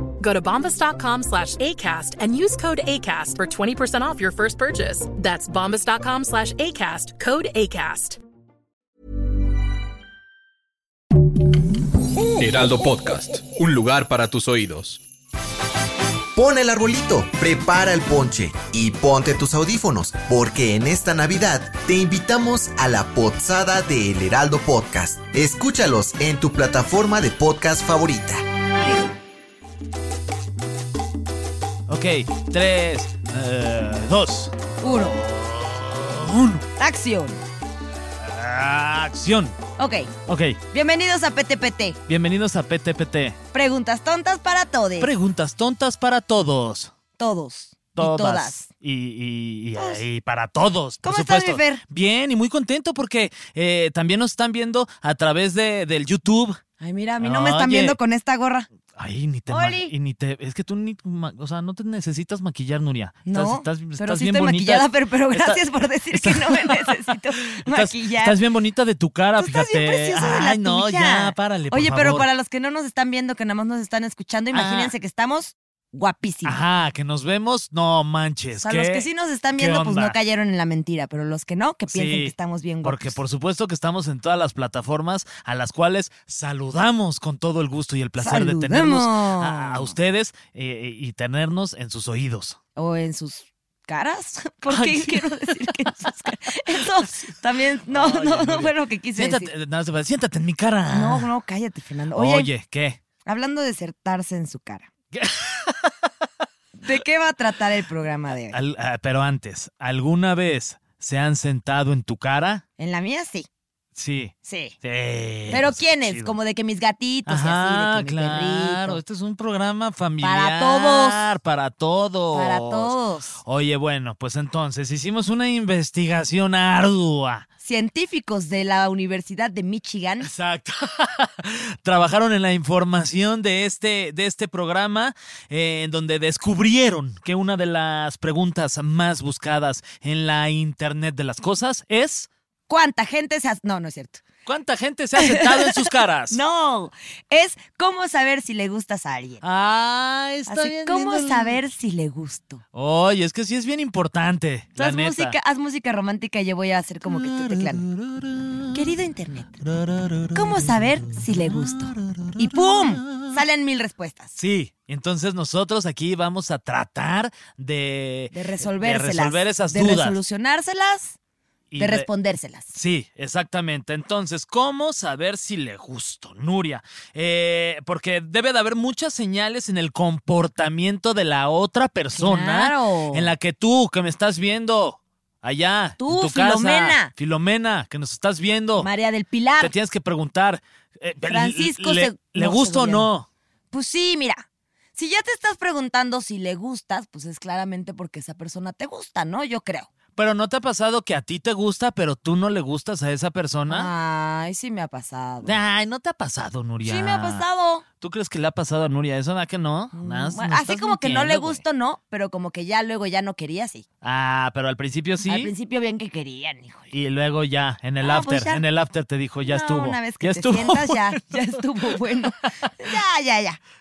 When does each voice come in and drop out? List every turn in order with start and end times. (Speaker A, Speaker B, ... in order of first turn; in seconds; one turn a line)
Speaker A: 0.2-8.2
Speaker B: 12.4-15.0
Speaker C: 16.4-28.4
Speaker D: 31.9-36.7
Speaker E: 34.8-35.2
Speaker E: 36.8-37.4
Speaker D: 38.2-39.6
Speaker E: 39.8-40.1
Speaker D: 40.3-40.6
Speaker E: 40.7-42.0
Speaker D: 42.1-43.4
Speaker E: 43.5-45.1
Speaker D: 45.0-46.9
Speaker E: 47.2-48.7
Speaker D: 48.0-56.6
Speaker E: 49.8-50.0
Speaker E: 51.0-51.8
Speaker E: 56.8-58.7
Speaker D: 57.2-58.0
Speaker D: 58.9-72.3
Speaker E: 59.5-59.9
Speaker E: 63.3-68.4
Speaker E: 69.4-76.6
Speaker D: 74.5-74.9
Speaker D: 76.5-80.2
Speaker E: 78.6-83.2
Speaker D: 81.9-92.6
Speaker E: 88.2-90.0
Speaker E: 92.8-99.5
Speaker D: 94.7-95.5
Speaker D: 96.7-97.3
Speaker D: 97.9-101.3
Speaker E: 100.9-102.5
Speaker D: 102.1-103.0
Speaker E: 103.2-104.9
Speaker D: 105.1-106.1
Speaker E: 106.8-108.6
Speaker D: 108.5-112.6
Speaker E: 112.8-113.5
Speaker D: 114.0-116.4
Speaker E: 114.5-114.8
Speaker E: 115.5-119.0
Speaker D: 117.3-127.5
Speaker E: 120.2-121.3
Speaker E: 122.3-123.4
Speaker E: 127.6-130.3
Speaker D: 130.2-142.3
Speaker E: 142.7-144.2
Speaker D: 144.5-146.4
Speaker E: 145.2-149.4
Speaker D: 149.4-151.6
Speaker E: 150.5-152.6
Speaker D: 152.7-155.4
Speaker E: 154.8-157.8
Speaker D: 157.1-158.8
Speaker E: 158.7-159.6
Speaker D: 159.6-163.4
Speaker E: 160.3-164.3
Speaker D: 164.4-170.2
Speaker E: 168.3-171.2
Speaker D: 171.7-172.1
Speaker E: 171.8-172.7
Speaker D: 172.7-188.9
Speaker E: 182.2-183.3
Speaker E: 186.0-187.1
Speaker E: 188.8-189.7
Speaker D: 189.6-193.3
Speaker E: 191.3-193.1
Speaker E: 193.7-199.9
Speaker D: 200.2-203.9
Speaker E: 203.7-205.6
Speaker D: 205.4-207.4
Speaker E: 206.8-207.8
Speaker D: 208.0-211.7
Speaker E: 209.9-213.8
Speaker D: 214.0-215.5
Speaker E: 215.2-216.9
Speaker D: 216.9-221.4
Speaker E: 218.0-218.6
Speaker E: 219.4-223.6